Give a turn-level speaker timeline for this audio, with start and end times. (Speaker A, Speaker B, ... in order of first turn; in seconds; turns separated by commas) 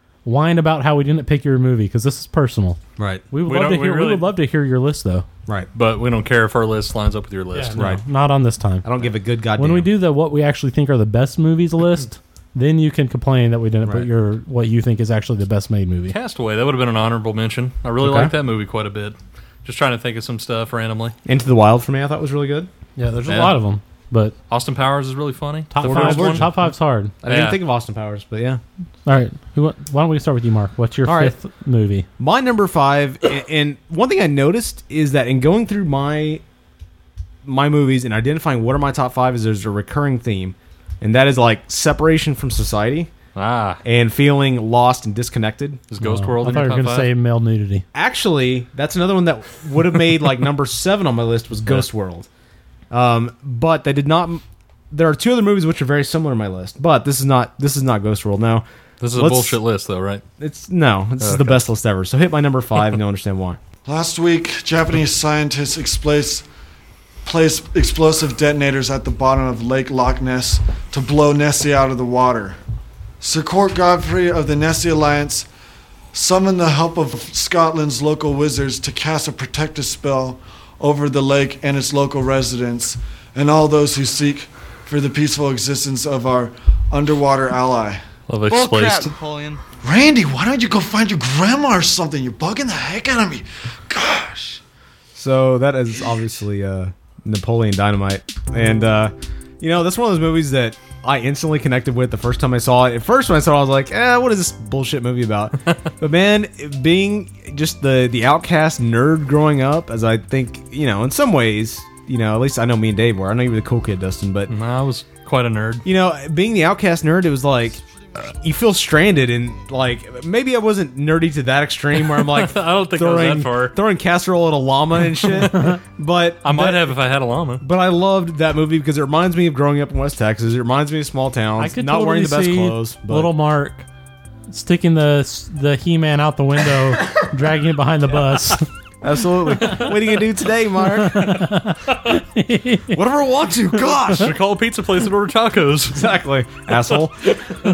Speaker A: 0.2-2.8, Speaker B: 3.0-3.2, Speaker A: 3.3-5.3, Speaker C: 3.5-4.3, Speaker C: 5.7-7.9, Speaker A: 7.5-8.9, Speaker B: 7.8-8.0, Speaker B: 8.8-9.9, Speaker A: 9.6-16.2, Speaker C: 16.1-21.1, Speaker B: 18.0-18.3, Speaker B: 21.2-22.7, Speaker A: 23.0-24.4, Speaker C: 23.3-23.6, Speaker C: 24.5-26.5, Speaker A: 25.7-27.1, Speaker B: 25.8-26.7, Speaker C: 27.2-27.6, Speaker B: 27.2-28.6, Speaker A: 29.1-32.1, Speaker B: 31.1-31.4, Speaker B: 32.2-36.4, Speaker B: 37.4-43.1, Speaker C: 43.4-43.8, Speaker B: 43.8-45.9, Speaker C: 45.9-47.1, Speaker A: 46.0-47.9, Speaker B: 46.4-46.7, Speaker B: 47.9-52.3, Speaker B: 52.9-58.6, Speaker C: 59.0-60.2, Speaker B: 59.2-59.6, Speaker B: 60.4-63.6, Speaker C: 61.2-61.6, Speaker D: 63.9-66.5, Speaker D: 67.2-72.6, Speaker D: 73.2-75.5, Speaker D: 76.1-88.0, Speaker C: 88.3-89.1, Speaker D: 89.8-94.6, Speaker B: 95.1-114.5, Speaker C: 114.5-115.8, Speaker B: 115.8-126.9, Speaker C: 122.0-123.8, Speaker C: 126.4-127.6, Speaker B: 127.6-133.3, Speaker A: 131.6-133.9, Speaker A: 134.5-138.6, Speaker B: 139.0-141.4, Speaker A: 141.0-143.0, Speaker B: 142.9-144.3, Speaker C: 144.0-146.0, Speaker B: 145.9-147.3